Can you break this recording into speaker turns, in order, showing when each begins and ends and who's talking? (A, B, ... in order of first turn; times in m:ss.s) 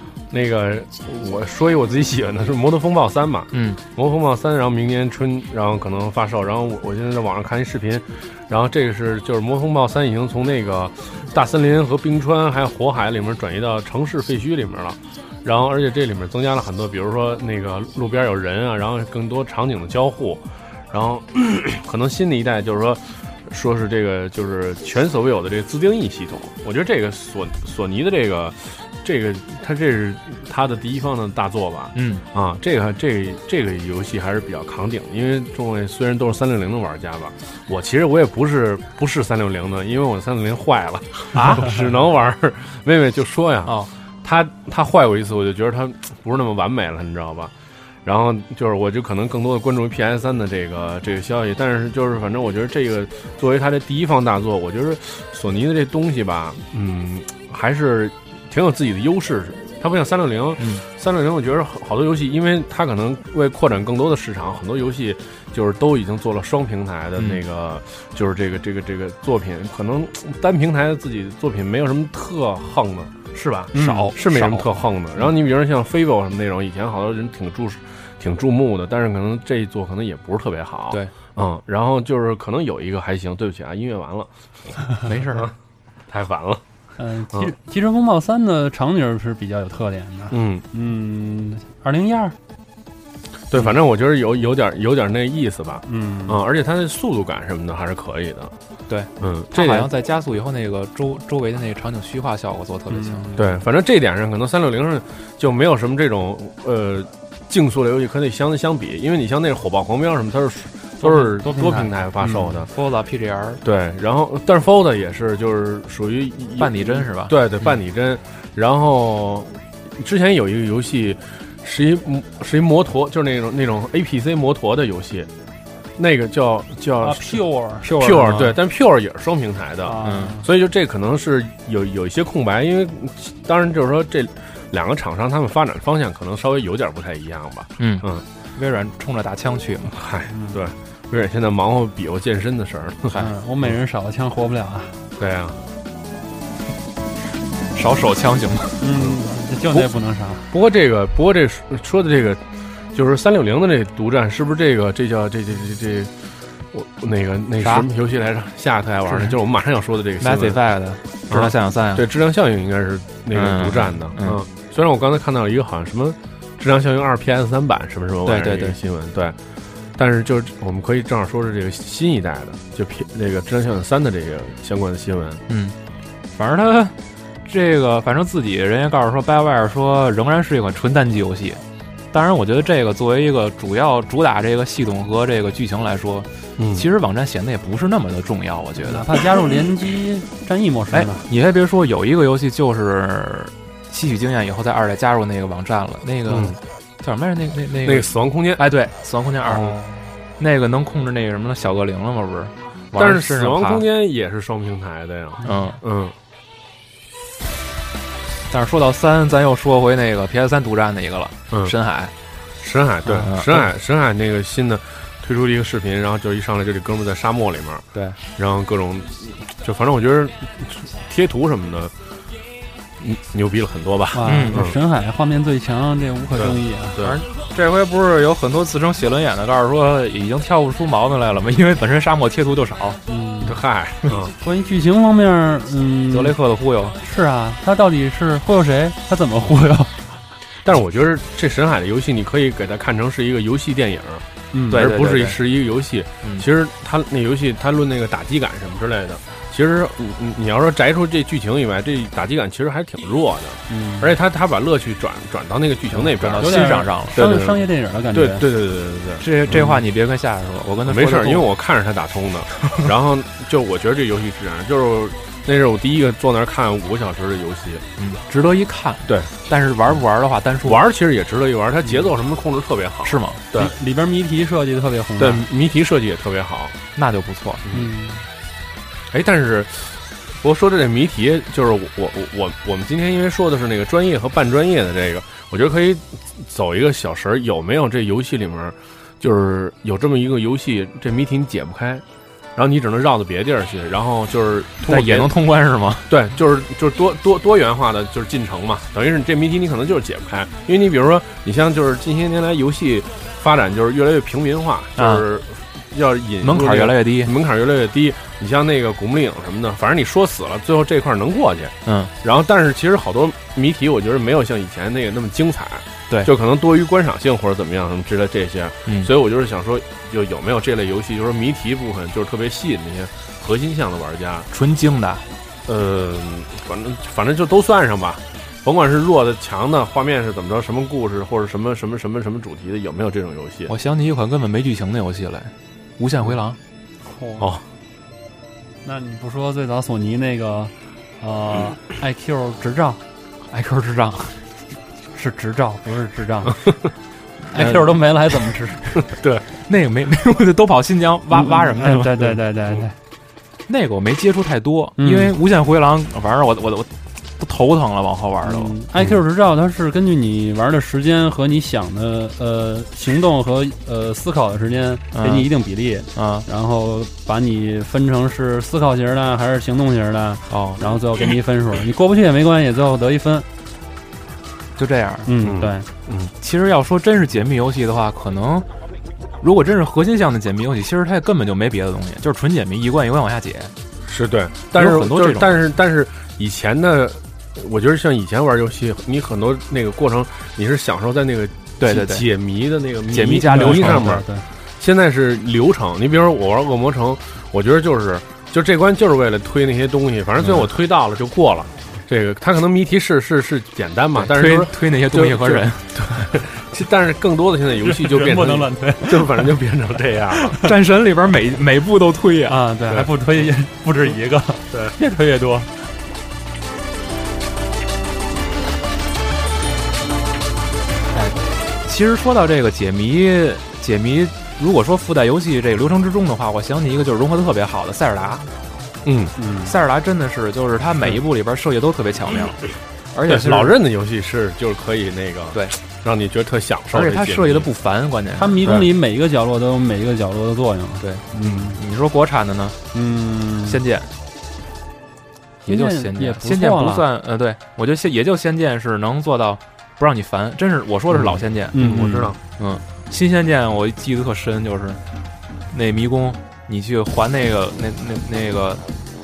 0:00.3-0:47.5 A
0:03.5-0:03.8 B
0:31.9-0:32.2 B
0:41.3-0:41.8 B
0:43.6-0:43.9 B
0:48.0-1:24.7 A
1:07.2-1:07.4 B
1:13.7-1:14.7 C
1:13.7-1:14.1 B
1:25.0-1:25.5 B
1:26.1-1:26.6 A
1:27.0-1:32.4 C
1:30.3-1:30.6 A
1:33.5-1:38.5 A
1:35.8-1:36.4 C
1:38.9-1:43.2 B
1:39.2-1:39.9 A
1:42.9-1:43.4 C
1:43.4-1:52.7 A
1:51.0-1:52.6 C
1:52.6-1:53.6 B
1:53.6-2:05.3 A
1:56.6-1:57.7 B
2:06.0-2:18.2 A
2:07.0-2:08.4 C
2:08.0-2:08.6 B
2:09.8-2:10.5 C
2:10.0-2:10.4 B
2:17.8-2:19.9 B
2:19.9-2:23.1 A
2:20.3-2:20.6 C
2:23.1-2:25.0 C
2:25.2-2:25.6 A
2:27.8-2:28.8 B
2:28.8-2:30.5 C
2:30.5-2:36.1 A
2:36.7-2:40.6 A
2:37.6-2:37.9 B
2:39.0-2:39.4 B
2:40.2-2:42.0 B
2:41.3-2:49.4 A
2:43.3-2:44.4 B
2:48.2-2:48.8 B
2:50.0-2:55.4 A
2:55.5-2:55.8 B
2:56.3-3:01.6 B
3:02.1-3:09.1 B
3:06.6-3:06.8 A
3:08.8-3:11.2 C
3:10.9-3:19.8 B
3:16.3-3:16.6 A
3:17.8-3:18.6 A
3:19.5-3:19.8 A
3:20.4-3:23.8 B
3:22.9-3:26.2 A
3:25.4-3:25.8 B
3:28.5-3:32.1 B
3:32.6-3:41.9 A
3:33.1-3:33.7 B
3:43.0-3:44.8 A
3:44.1-3:47.0 C
3:44.2-3:44.6 B
3:46.3-3:47.2 A
3:47.0-3:53.0 B
3:53.1-3:53.6 C
3:53.4-3:54.3 A
3:54.4-3:56.4 C
3:56.1-3:57.0 B
3:57.0-4:00.1 C
4:00.6-4:19.7 A
4:04.5-4:04.8 C
4:04.7-4:05.4 B
4:13.7-4:14.1 C
4:15.9-4:17.3 B
4:16.4-4:18.4 C
4:19.2-4:21.5 B
4:19.5-4:19.8 C
4:20.8-4:27.8 A
4:28.0-4:30.8 B
4:30.6-4:33.7 A
4:33.0-4:33.4 B
4:33.5-4:35.4 C
4:35.2-4:36.8 A
4:37.0-4:37.6 B
4:37.7-4:38.2 C
4:39.1-4:52.0 A
4:52.6-4:55.3 A
4:54.9-4:56.1 B
4:56.1-5:24.5 A
5:05.0-5:05.2 B
5:06.4-5:07.3 B
5:11.8-5:12.1 B
5:24.5-5:25.2 B
5:25.6-5:33.7 A
5:33.7-5:36.6 B
5:37.0-5:37.5 C
5:38.8-5:43.0 C
5:43.5-5:44.4 B
5:45.1-5:46.6 C
5:47.5-5:48.9 C
5:47.5-5:47.9 B
5:49.0-5:49.4 A
5:49.6-5:52.2 B
5:51.3-5:53.0 C
5:53.7-5:58.8 B
5:55.0-5:55.3 C
5:58.4-6:13.4 C
6:05.1-6:05.5 B
6:06.1-6:06.4 B
6:10.5-6:10.8 B
6:14.8-6:15.3 B
6:15.2-6:15.9 C
6:15.4-6:16.3 A
6:16.4-6:18.6 B
6:19.4-6:23.7 B
6:24.0-6:34.2 A
6:24.7-6:25.6 B
6:31.8-6:32.2 B
6:33.1-6:34.2 B
6:33.4-6:34.4 C
6:34.8-6:50.6 A
6:44.2-6:46.3 B
6:47.8-6:49.5 C
6:50.4-6:50.7 C
6:50.6-6:52.6 B
6:52.5-6:55.7 C
7:01.1-7:08.4 B
7:09.0-7:09.3 A
7:09.4-7:09.7 C
7:09.6-7:13.7 B
7:13.3-7:17.7 A
7:16.9-7:18.7 B
7:18.4-7:21.8 C
7:21.0-7:22.8 B
7:22.9-7:23.8 C
7:23.6-7:24.1 B
7:25.6-7:27.0 C
7:25.6-7:31.9 B
7:31.1-7:32.4 A
7:31.7-7:32.3 C
7:32.6-7:35.0 B
7:35.7-7:38.8 B